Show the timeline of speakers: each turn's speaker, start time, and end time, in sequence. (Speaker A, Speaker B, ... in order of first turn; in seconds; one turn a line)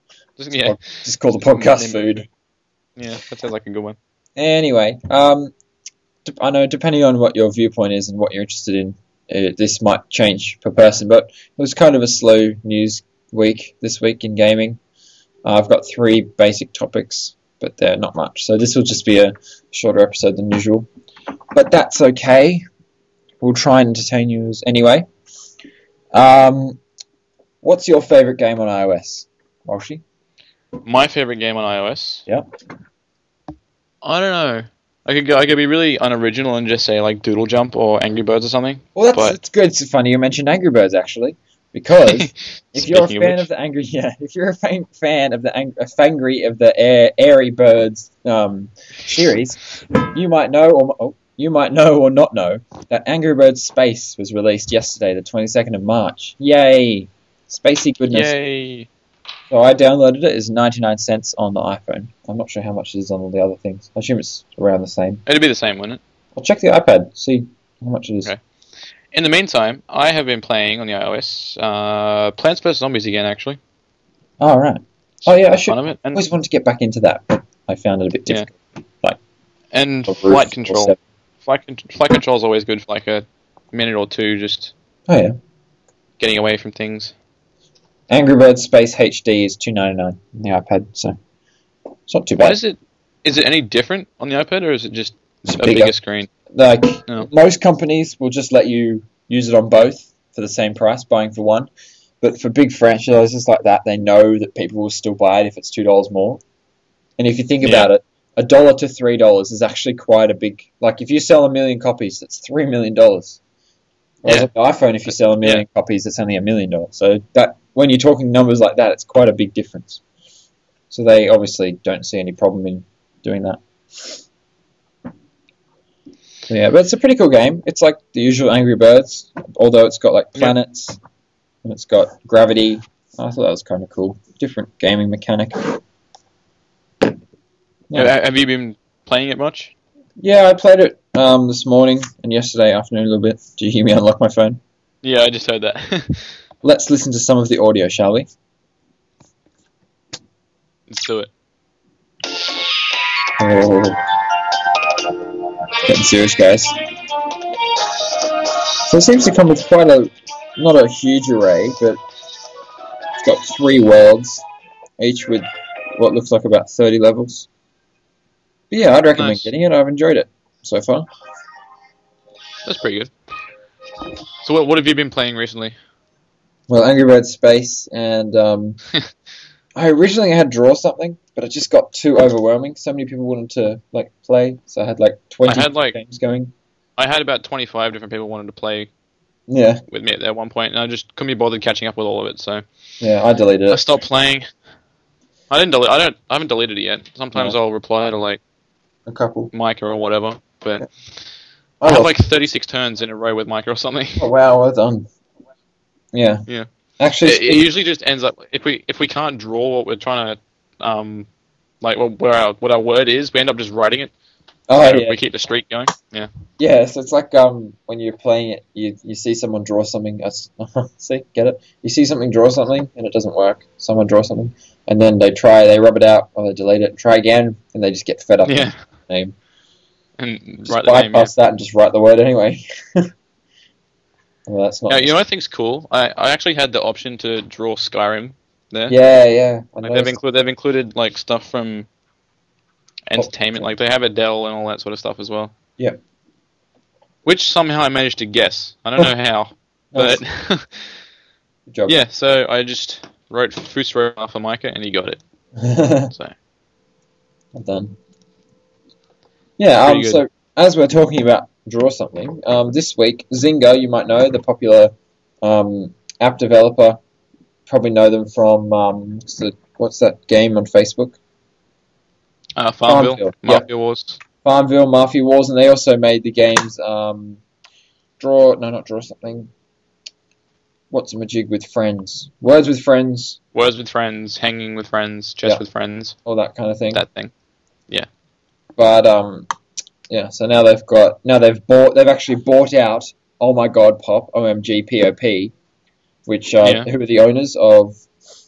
Speaker A: 0.4-0.8
Speaker B: 0.5-2.3
Speaker A: 1.5-2.2
Speaker A: 3.0-4.0
Speaker B: 4.4-5.5
Speaker B: 6.2-14.8
Speaker B: 15.4-20.9
Speaker B: 21.6-22.6
Speaker B: 23.4-25.1
Speaker B: 26.1-26.8
Speaker B: 27.6-30.0
Speaker A: 30.8-32.3
Speaker A: 34.0-39.4
Speaker B: 39.0-58.3
Speaker A: 42.8-43.5
Speaker A: 58.1-58.9
Speaker B: 59.5-65.2
Speaker A: 65.3-66.0
Speaker B: 66.4-68.3
Speaker A: 69.1-73.6
Speaker B: 74.4-79.2
Speaker A: 75.2-76.2
Speaker A: 79.7-84.7
Speaker B: 80.1-81.0
Speaker B: 85.1-85.3
Speaker A: 86.2-87.1
Speaker B: 88.1-91.2
Speaker B: 92.1-92.6
Speaker A: 92.4-96.3
Speaker B: 95.5-95.9
Speaker B: 96.5-101.7
Speaker B: 102.2-106.4
Speaker B: 107.2-113.4
Speaker A: 107.6-107.9
Speaker B: 114.2-120.0
Speaker B: 120.9-124.2
Speaker B: 126.5-131.0
Speaker B: 131.6-135.8
Speaker A: 137.9-139.7
Speaker B: 140.2-144.6
Speaker A: 145.0-146.3
Speaker B: 146.6-148.3
Speaker A: 150.9-151.3
Speaker B: 153.4-155.1
Speaker B: 155.8-157.2
Speaker B: 157.9-162.0
Speaker B: 163.2-164.4
Speaker B: 165.0-165.4
Speaker B: 166.0-167.5
Speaker B: 168.7-171.1
Speaker A: 169.2-169.5
Speaker A: 172.7-173.1
Speaker A: 174.4-175.8
Speaker B: 176.7-178.8
Speaker B: 179.8-186.5
Speaker A: 185.4-186.0
Speaker A: 187.0-188.9
Speaker B: 189.5-189.8
Speaker A: 189.9-192.7
Speaker B: 193.0-193.8
Speaker A: 193.7-194.4
Speaker A: 195.5-198.4
Speaker B: 199.1-199.5
Speaker A: 199.5-200.9
Speaker B: 201.8-202.2
Speaker A: 201.8-204.3
Speaker B: 204.2-205.1
Speaker B: 206.1-206.4
Speaker B: 207.0-207.7
Speaker A: 207.2-211.3
Speaker A: 211.8-214.1
Speaker B: 214.7-215.2
Speaker A: 214.8-216.3
Speaker B: 216.6-229.3
Speaker A: 228.5-228.8
Speaker A: 230.2-231.3
Speaker B: 230.7-233.0
Speaker B: 234.5-235.2
Speaker A: 234.9-239.0
Speaker B: 238.9-240.2
Speaker A: 239.8-241.9
Speaker A: 243.1-245.5
Speaker B: 243.2-243.7
Speaker A: 247.2-250.9
Speaker B: 249.9-250.2
Speaker B: 251.7-252.0
Speaker A: 251.9-255.2
Speaker B: 255.6-256.1
Speaker B: 257.5-258.0
Speaker B: 259.6-267.0
Speaker A: 259.8-260.2
Speaker B: 267.7-271.2
Speaker A: 272.6-274.2
Speaker B: 272.9-273.7
Speaker B: 274.4-277.4
Speaker B: 278.2-279.5
Speaker B: 280.9-283.4
Speaker A: 283.5-286.2
Speaker B: 286.2-287.0
Speaker A: 286.9-287.3
Speaker B: 288.8-289.5
Speaker B: 290.1-295.5
Speaker B: 296.3-298.0
Speaker A: 296.6-296.9